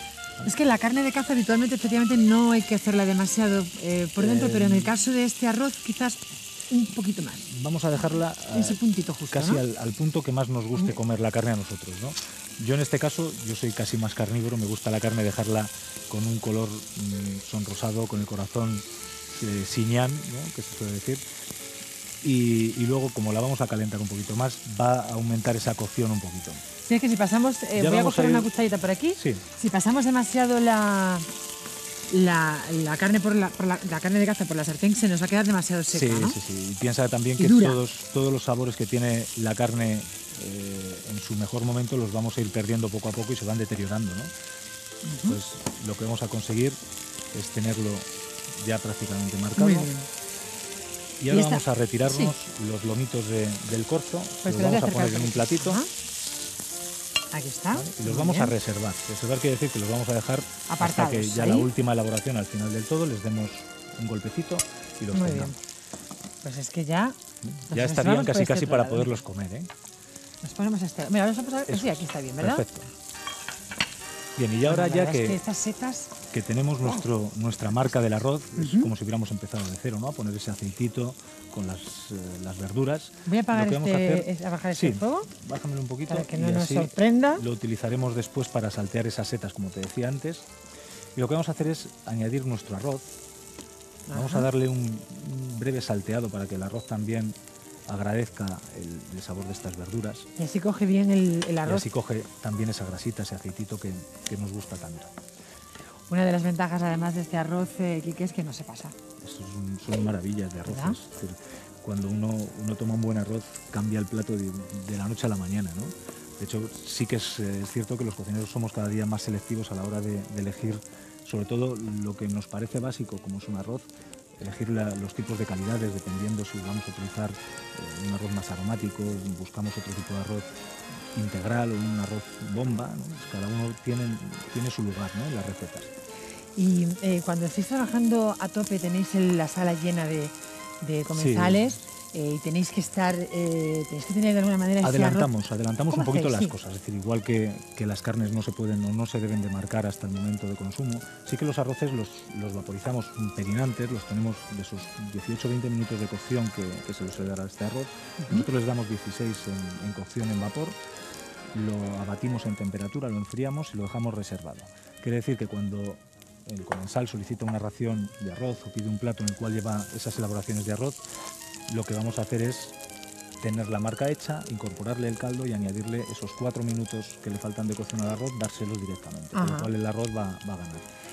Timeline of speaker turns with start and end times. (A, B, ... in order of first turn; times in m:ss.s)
0:00.4-0:07.5 A
0:04.2-0:04.9 B
0:07.5-0:21.2 B
0:08.5-0:09.6 A
0:22.2-0:26.6 B
0:26.8-0:31.3 A
0:27.8-0:28.5 B
0:29.2-0:29.5 B
0:32.1-0:36.4 A
0:35.9-0:44.3 B
0:37.4-0:37.8 A
0:45.0-0:45.4 A
0:45.2-0:46.8 B
0:47.3-0:49.9 B
0:49.6-0:50.1 A
0:51.2-0:55.8 B
0:51.3-0:52.3 A
0:54.4-0:55.9 A
0:57.3-0:58.6 A
0:57.7-1:05.6 B
1:00.7-1:01.7 A
1:05.1-1:05.6 A
1:06.4-1:07.2 A
1:07.4-1:09.7 B
1:07.7-1:09.2 A
1:10.4-1:12.7 A
1:11.7-1:12.9 B
1:14.4-1:15.4 B
1:14.6-1:16.2 A
1:16.3-1:30.5 B
1:18.6-1:18.9 A
1:23.3-1:25.3 A
1:26.1-1:27.4 A
1:31.2-1:33.1 B
1:34.1-1:34.5 A
1:34.1-1:37.4 B
1:37.9-1:40.3 B
1:40.4-1:41.9 A
1:41.6-1:45.2 B
1:46.1-1:49.0 A
1:49.2-2:10.5 B
1:50.6-1:51.0 A
2:11.1-2:15.9 B
2:16.6-2:25.3 A
2:21.1-2:21.7 B
2:24.8-2:40.8 B
2:25.9-2:26.6 A
2:38.2-2:38.5 A
2:41.5-2:51.0 B
2:51.7-2:52.8 B
2:53.4-3:00.9 B
2:59.3-2:59.7 A